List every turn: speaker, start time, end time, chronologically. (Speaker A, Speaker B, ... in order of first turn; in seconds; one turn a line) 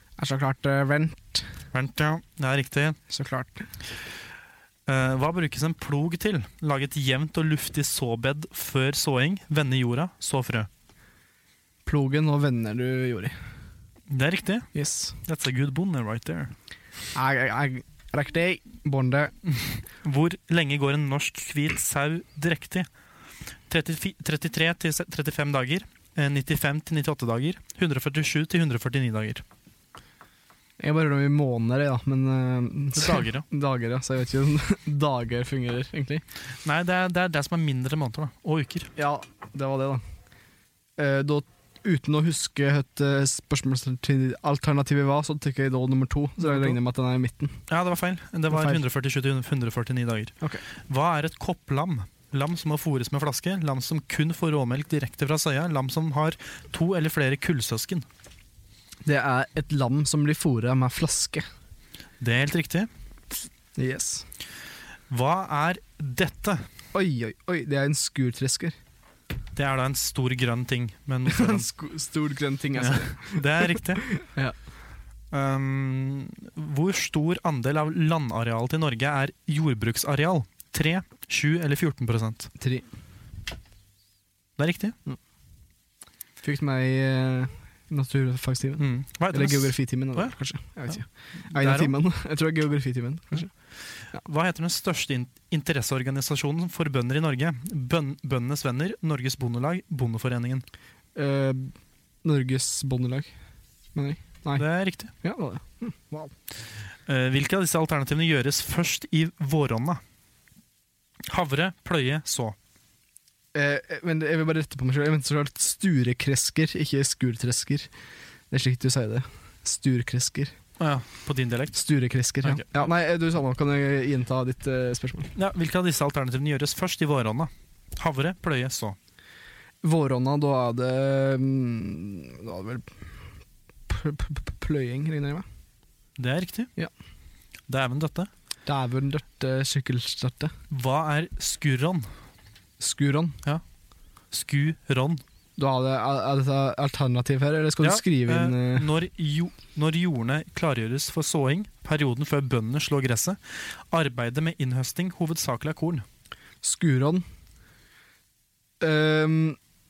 Speaker A: 0.2-1.5
Speaker B: 1.7-3.0
Speaker A: 3.1-3.7
Speaker B: 4.9-10.7
Speaker A: 11.8-13.3
Speaker B: 14.1-16.5
Speaker A: 14.8-15.2
Speaker A: 17.1-19.3
Speaker B: 19.5-22.9
Speaker B: 23.7-29.4
Speaker A: 30.8-36.2
Speaker B: 33.0-33.5
Speaker B: 36.6-38.9
Speaker A: 39.0-40.0
Speaker A: 41.0-47.6
Speaker B: 46.4-46.8
Speaker B: 47.7-58.1
Speaker A: 48.5-48.8
Speaker A: 59.0-61.5
Speaker B: 62.2-62.9
Speaker A: 63.8-64.3
Speaker B: 65.1-66.7
Speaker A: 66.9-68.8
Speaker B: 69.5-71.7
Speaker A: 71.3-74.6
Speaker B: 72.8-74.2
Speaker B: 75.3-82.5
Speaker A: 82.6-82.9
Speaker B: 84.6-85.0
Speaker A: 86.4-93.5
Speaker B: 88.8-92.0
Speaker B: 94.2-100.7
Speaker A: 101.2-103.3
Speaker A: 104.0-106.3
Speaker B: 104.6-105.1
Speaker B: 107.1-110.0
Speaker B: 111.3-112.6
Speaker A: 113.5-117.9
Speaker A: 118.5-120.5
Speaker B: 120.8-121.8
Speaker A: 121.8-125.3
Speaker B: 122.4-122.9
Speaker B: 125.4-129.0
Speaker A: 129.8-133.1
Speaker A: 133.9-135.4
Speaker B: 136.2-136.7
Speaker B: 137.7-138.3
Speaker A: 138.7-140.5
Speaker B: 140.7-142.1
Speaker A: 142.8-143.4
Speaker B: 144.3-145.2
Speaker A: 145.6-148.9
Speaker B: 147.8-156.1
Speaker A: 156.6-157.2
Speaker A: 158.8-159.6